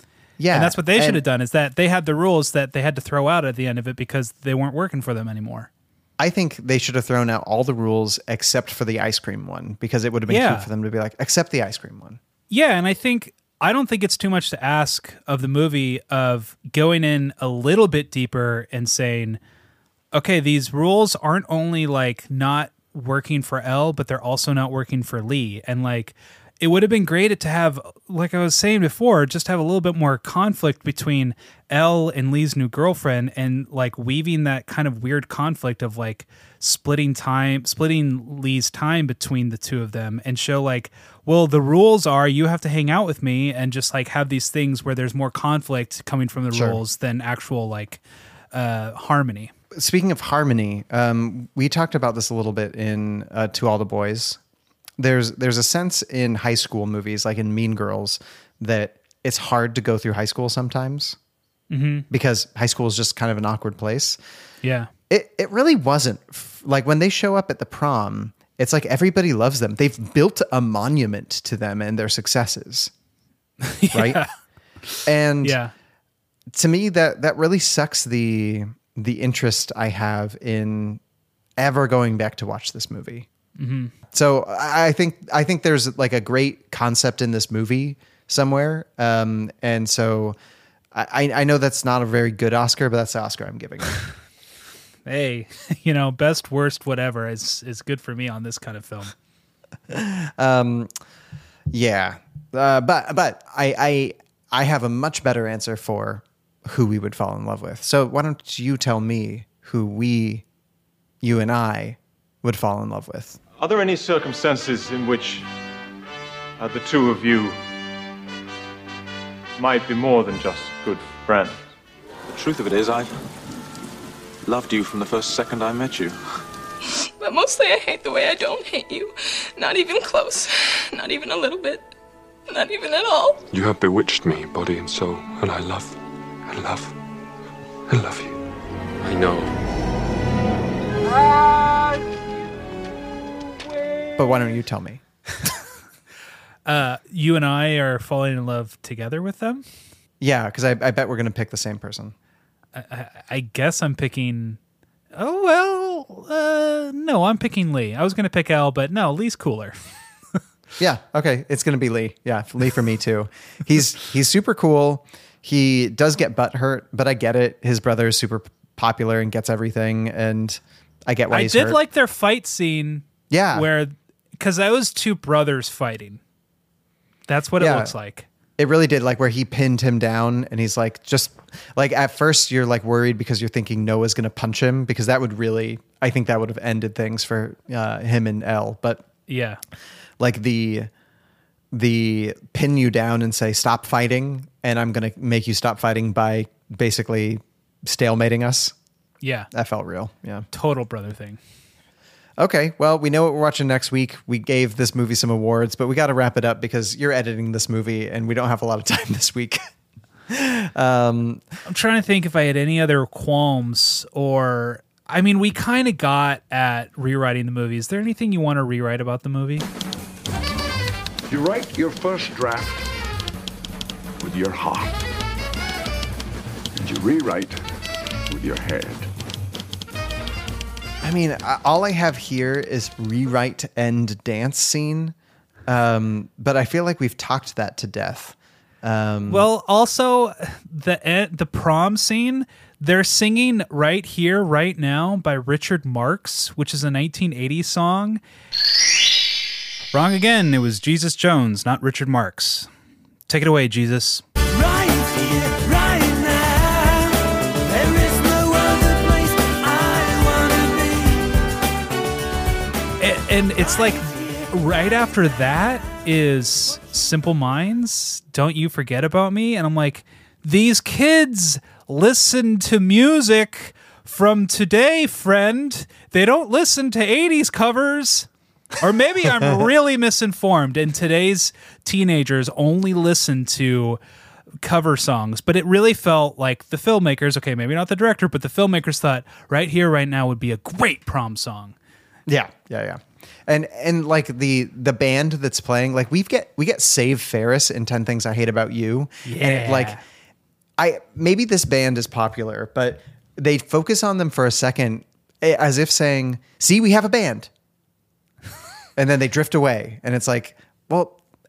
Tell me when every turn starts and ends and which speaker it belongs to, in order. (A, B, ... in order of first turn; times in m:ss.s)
0:00.4-0:01.2 A
0:00.5-0:05.7 B
0:06.2-0:12.2 A
0:10.3-0:10.7 B
0:12.5-0:19.4 B
0:20.1-0:48.0 B
0:46.5-0:46.8 A
0:48.5-0:49.5 B
0:49.7-0:54.4 A
0:55.0-1:01.2 A
1:01.7-1:02.0 B
1:02.1-1:04.2 A
1:04.6-1:04.9 B
1:05.1-1:12.9 A
1:13.6-1:14.3 B
1:13.9-1:14.2 A
1:14.8-1:15.7 B
1:15.0-1:15.6 A
1:16.5-1:21.0 A
1:21.6-1:23.3 A
1:23.6-1:23.9 B
1:24.1-1:30.4 A
1:30.9-1:34.0 A
1:35.0-1:39.1 B
1:39.9-1:40.9 A
1:41.7-1:50.4 A
1:51.2-1:53.4 A
1:53.6-1:55.4 C
1:56.6-1:57.6 C
1:59.6-2:01.6 C
2:02.3-2:03.1 D
2:04.4-2:06.2 D
2:07.2-2:11.8 E
2:12.5-2:13.4 E
2:13.5-2:15.9 F
2:16.5-2:16.8 F
2:17.9-2:18.2 F
2:19.0-2:19.4 F
2:24.2-2:25.0 A
2:26.6-2:29.6 B
2:30.2-2:32.1 A
2:32.7-2:34.6 B
2:35.1-2:39.8 B
2:40.8-2:51.8 A
2:51.3-2:56.2 B
2:53.3-2:53.7 A
2:57.3-2:58.3 B
2:57.6-2:57.9 A
2:58.6-3:09.0 A
3:09.3-3:09.6 B
3:10.2-3:10.9 A
3:11.7-3:18.7 A
3:19.2-3:19.5 B
3:19.5-3:20.4 A
3:20.5-3:21.4 B
3:22.4-3:29.6 A
3:30.3-3:31.4 A
3:31.6-3:39.7 B
3:41.3-3:42.8 G
3:44.2-3:45.0 G
3:46.8-3:47.6 G
3:48.3-3:49.1 G
3:51.0-3:55.1 A
3:55.7-3:59.5 A
3:59.3-4:08.2 B
4:09.9-4:12.7 B
4:13.3-4:14.2 B
4:15.6-4:16.5 B
4:17.9-4:19.0 B
4:19.8-4:20.5 B
4:23.0-4:38.3 B
4:38.8-4:44.0 B
4:44.6-4:51.7 B
4:52.3-5:00.0 A
4:59.2-5:00.0 B
5:00.8-5:07.5 A
5:09.0-5:11.2 A